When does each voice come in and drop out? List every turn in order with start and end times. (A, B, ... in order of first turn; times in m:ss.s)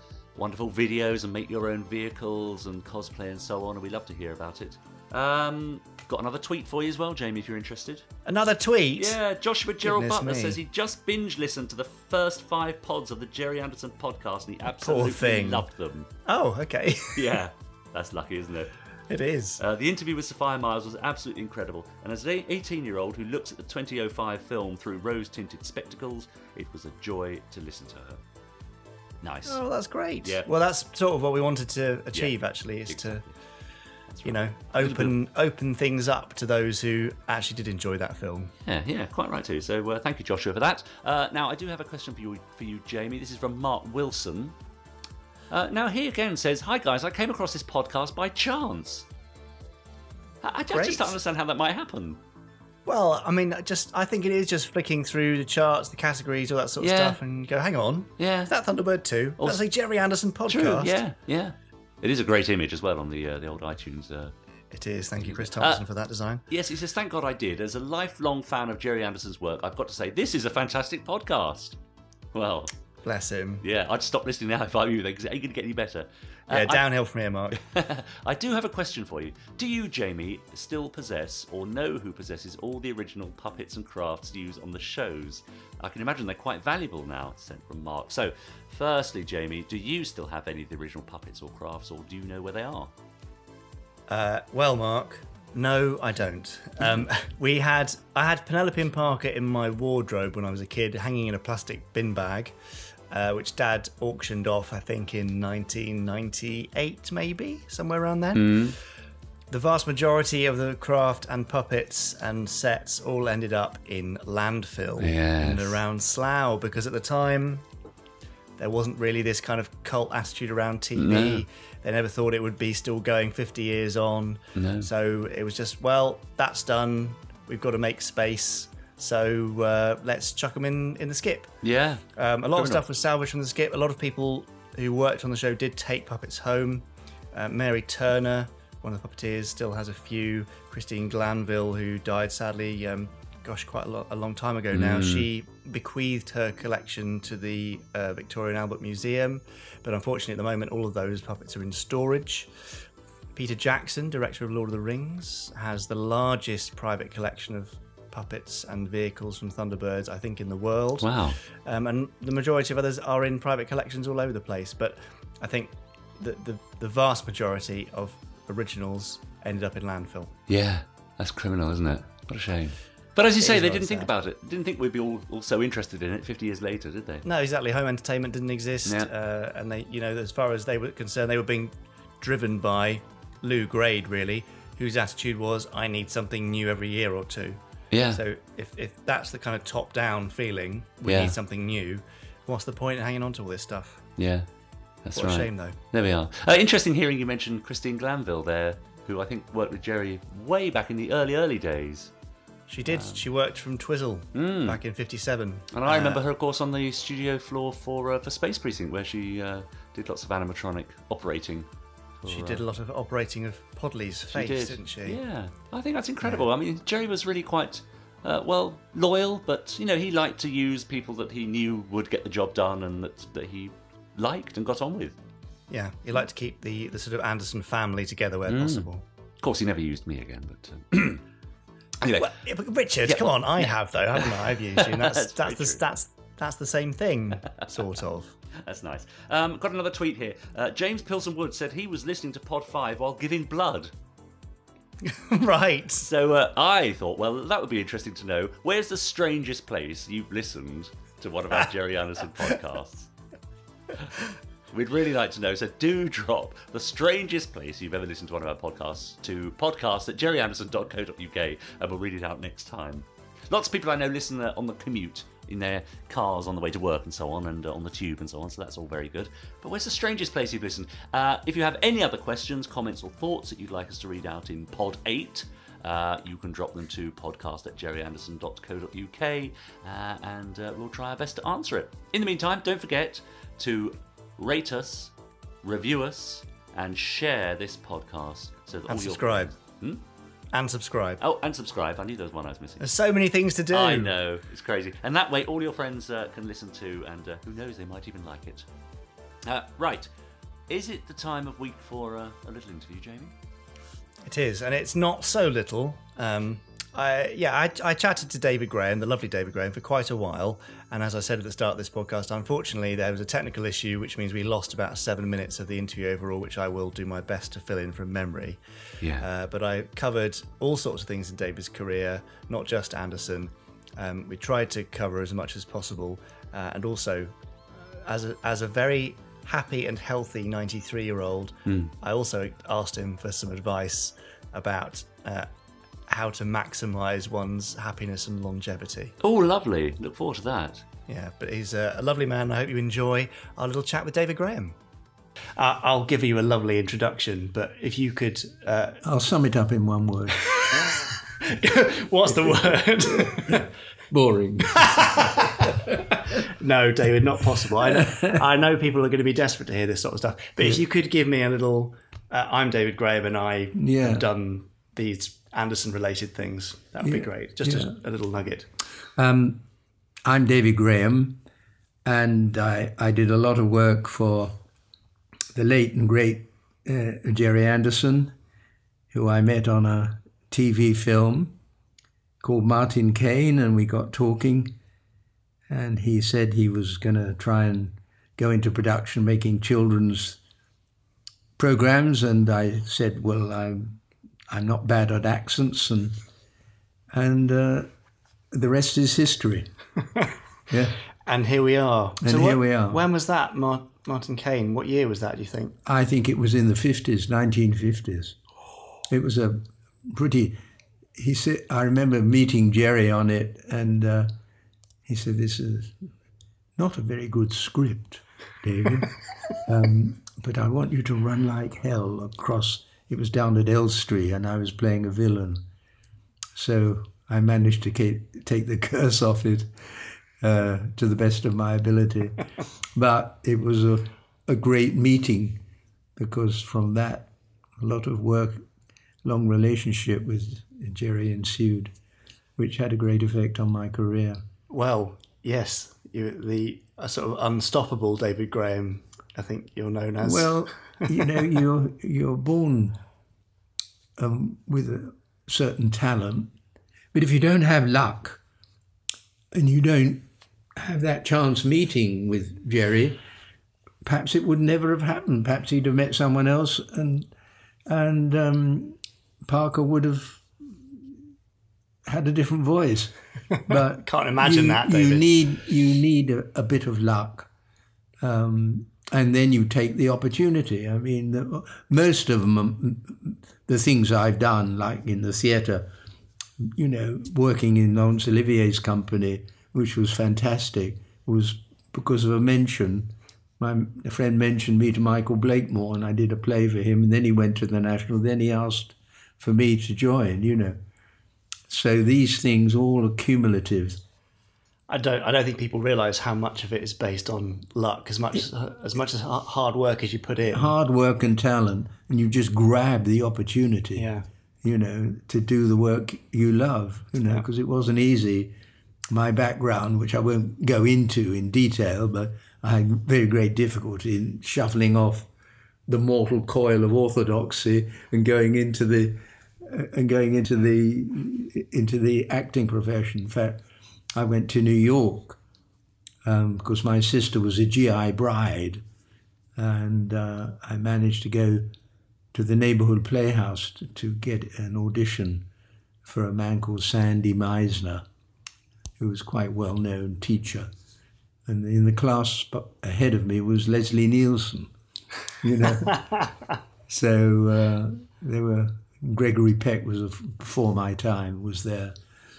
0:00.4-0:08.1 A
0:08.3-0:09.2 B
0:09.0-0:16.1 A
0:09.8-0:10.6 B
0:14.8-0:15.7 B
0:16.3-0:17.4 B
0:17.2-0:18.7 A
0:19.1-0:19.6 B
0:19.6-0:28.2 A
0:29.2-0:29.6 A
0:29.5-0:33.2 B
0:32.9-0:33.3 A
0:34.1-0:35.2 A
0:34.2-0:38.5 B
0:38.7-0:44.6 A
0:45.5-0:49.1 A
0:50.4-0:52.2 A
0:50.7-0:51.1 B
0:52.9-1:00.9 B
0:56.8-0:57.2 A
0:58.2-0:58.5 A
1:00.5-1:04.3 A
1:04.7-1:06.4 B
1:05.2-1:05.8 A
1:06.5-1:11.8 A
1:12.3-1:12.7 A
1:13.0-1:13.6 B
1:13.6-1:16.9 A
1:16.5-1:17.6 B
1:17.6-1:32.9 A
1:34.1-1:42.6 B
1:43.1-1:48.7 B
1:48.4-1:48.8 A
1:49.5-1:57.6 B
1:55.0-1:55.8 A
1:58.6-2:11.6 B
2:01.0-2:01.4 A
2:04.6-2:04.9 A
2:11.6-2:12.0 A
2:12.2-2:32.5 B
2:12.6-2:12.8 A
2:24.7-2:25.3 A
2:33.4-2:50.3 B
2:41.0-2:41.4 A
2:50.5-2:57.2 A
2:53.4-2:54.1 B
2:57.2-3:07.6 B
3:07.9-3:08.2 A
3:08.1-3:14.0 B
3:11.0-3:11.4 A
3:14.2-3:14.5 A
3:15.0-3:22.1 A
3:15.2-3:15.8 B
3:22.7-3:26.2 B
3:22.9-3:23.3 A
3:24.3-3:24.8 A
3:25.7-3:31.7 A
3:32.2-3:32.6 A
3:32.3-3:35.2 B
3:34.3-3:45.2 A
3:45.7-3:49.0 B
3:48.5-3:48.9 A
3:49.4-3:51.2 A
3:52.0-3:52.4 A
3:52.2-3:58.4 B
3:53.0-3:55.8 A
3:58.6-4:03.9 A
4:05.1-4:06.1 B
4:06.0-4:13.1 A
4:14.7-4:50.0 A
4:48.9-4:49.5 B
4:50.5-4:51.2 B
4:51.2-4:52.9 A
4:52.8-4:54.1 B
4:53.7-4:58.7 A
4:59.5-5:00.1 A
5:00.7-5:03.3 A
5:04.2-5:18.6 B
5:19.0-5:19.3 A
5:19.2-5:35.5 B
5:31.7-5:31.9 A
5:36.1-5:39.1 B
5:39.2-5:40.9 A
5:41.1-5:44.8 B
5:45.6-5:49.0 B
5:49.0-5:50.4 C
5:51.4-5:53.6 B
5:52.5-5:55.3 C
5:54.8-5:55.6 B
5:56.6-6:08.7 B
5:57.8-5:58.4 C
6:03.8-6:04.3 C
6:07.0-6:07.9 C
6:09.2-6:09.6 C
6:10.2-6:11.4 C
6:12.0-6:14.6 C
6:15.6-6:18.4 C
6:19.1-6:21.6 C
6:22.4-6:24.8 C
6:25.7-6:30.4 C
6:31.6-6:34.0 C
6:34.5-6:36.2 C
6:37.1-6:37.9 C
6:38.5-6:39.7 C
6:40.7-6:41.0 C
6:41.3-6:45.8 B
6:42.2-6:43.0 C
6:45.8-6:48.4 C
6:49.1-6:50.6 C
6:51.2-6:54.3 C
6:55.0-6:56.0 C
6:56.8-6:59.1 C
6:59.6-7:05.6 C
7:06.6-7:12.4 C
7:13.0-7:15.6 C
7:16.2-7:18.6 C
7:19.2-7:21.9 C
7:22.6-7:24.4 C
7:24.7-7:31.4 B
7:30.2-7:33.0 C
7:34.2-7:36.5 C
7:37.1-7:38.4 C
7:39.5-7:40.2 C
7:40.8-7:43.2 C
7:44.0-7:47.3 C
7:47.9-7:51.0 C
7:52.1-7:53.2 C
7:53.7-7:57.5 C
7:53.7-7:55.2 B
7:58.2-8:05.9 C
8:06.6-8:20.8 C
8:21.7-8:24.0 C
8:24.9-8:30.7 B
8:30.5-8:34.1 C
8:34.0-8:34.2 B
8:34.6-8:38.5 C
8:39.1-8:45.3 C
8:45.9-8:53.6 C
8:54.1-8:55.4 C
8:56.2-8:58.8 C
8:59.6-9:01.7 C
9:02.3-9:05.5 C
9:06.0-9:08.0 C
9:09.0-9:10.7 C
9:11.5-9:14.7 C
9:15.4-9:16.0 C
9:16.9-9:22.0 C